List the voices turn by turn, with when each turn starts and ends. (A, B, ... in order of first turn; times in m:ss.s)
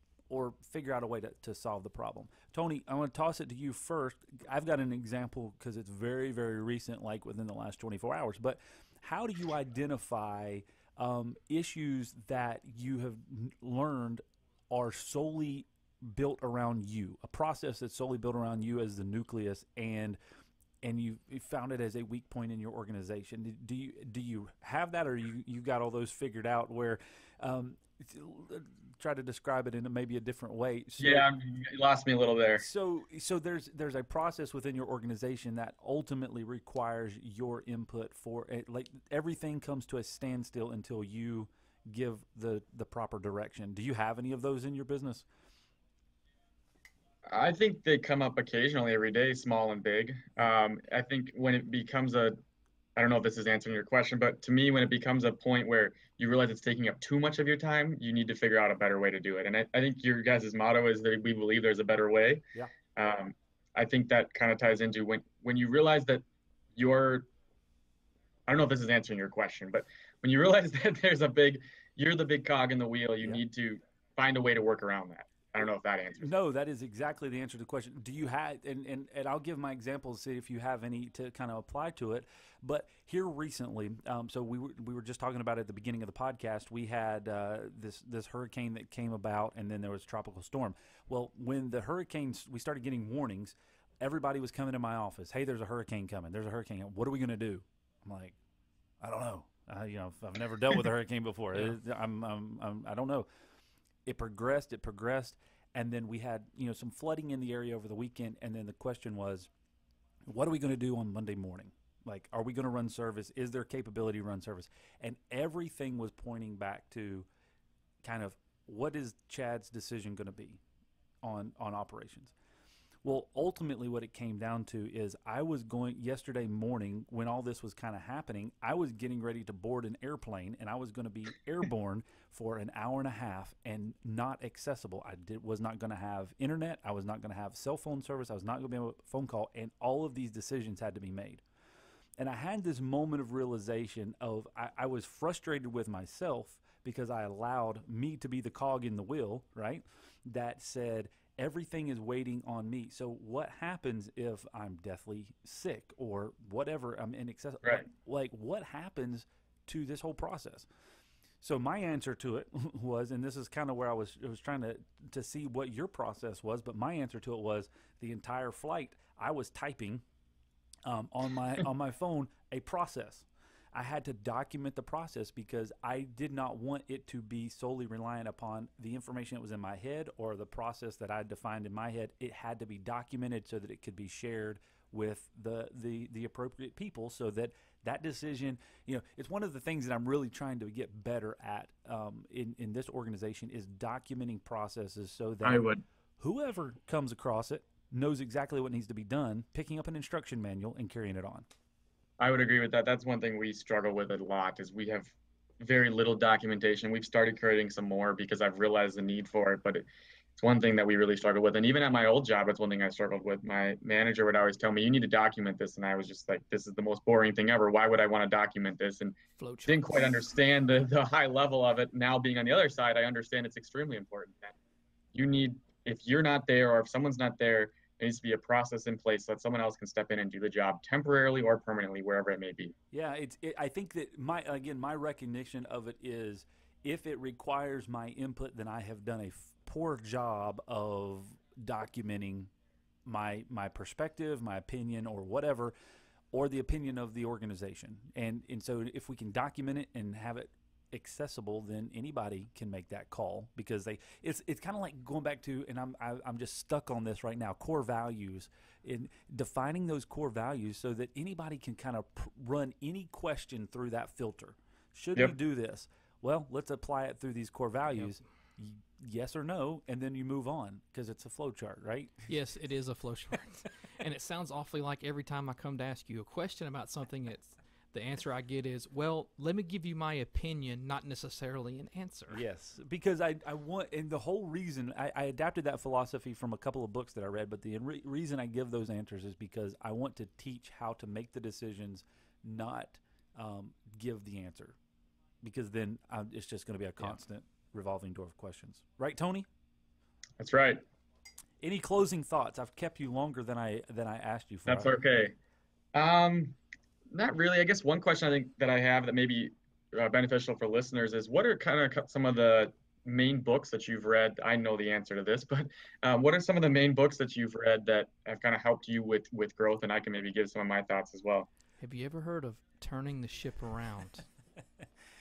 0:00.3-0:20.2 A
0:20.8-0:31.3 A
0:31.0-0:32.6 B
0:32.6-0:45.3 A
0:47.3-0:52.4 B
0:53.0-1:02.4 B
1:03.0-1:06.2 B
1:06.8-1:07.3 B
1:08.5-1:16.3 B
1:16.2-1:38.4 A
1:39.0-1:43.3 A
1:44.1-1:49.5 A
1:50.3-1:57.3 A
1:58.0-2:00.6 A
2:01.2-2:02.3 A
2:03.0-2:21.4 A
2:22.2-2:40.7 A
2:41.4-2:50.0 A
2:50.9-3:15.7 A
3:15.4-3:15.8 B
3:16.2-3:21.5 A
3:22.2-3:29.8 B
3:30.4-3:44.6 B
3:39.4-3:40.2 C
3:45.2-3:52.7 B
3:52.9-4:02.5 A
4:03.1-4:05.7 A
4:06.3-4:32.3 A
4:32.3-4:42.4 C
4:42.3-4:54.8 A
4:55.4-4:59.5 A
5:00.4-5:00.8 B
5:01.6-5:04.9 A
5:04.7-5:05.4 B
5:05.9-5:06.6 B
5:07.1-5:21.5 B
5:21.8-5:24.3 C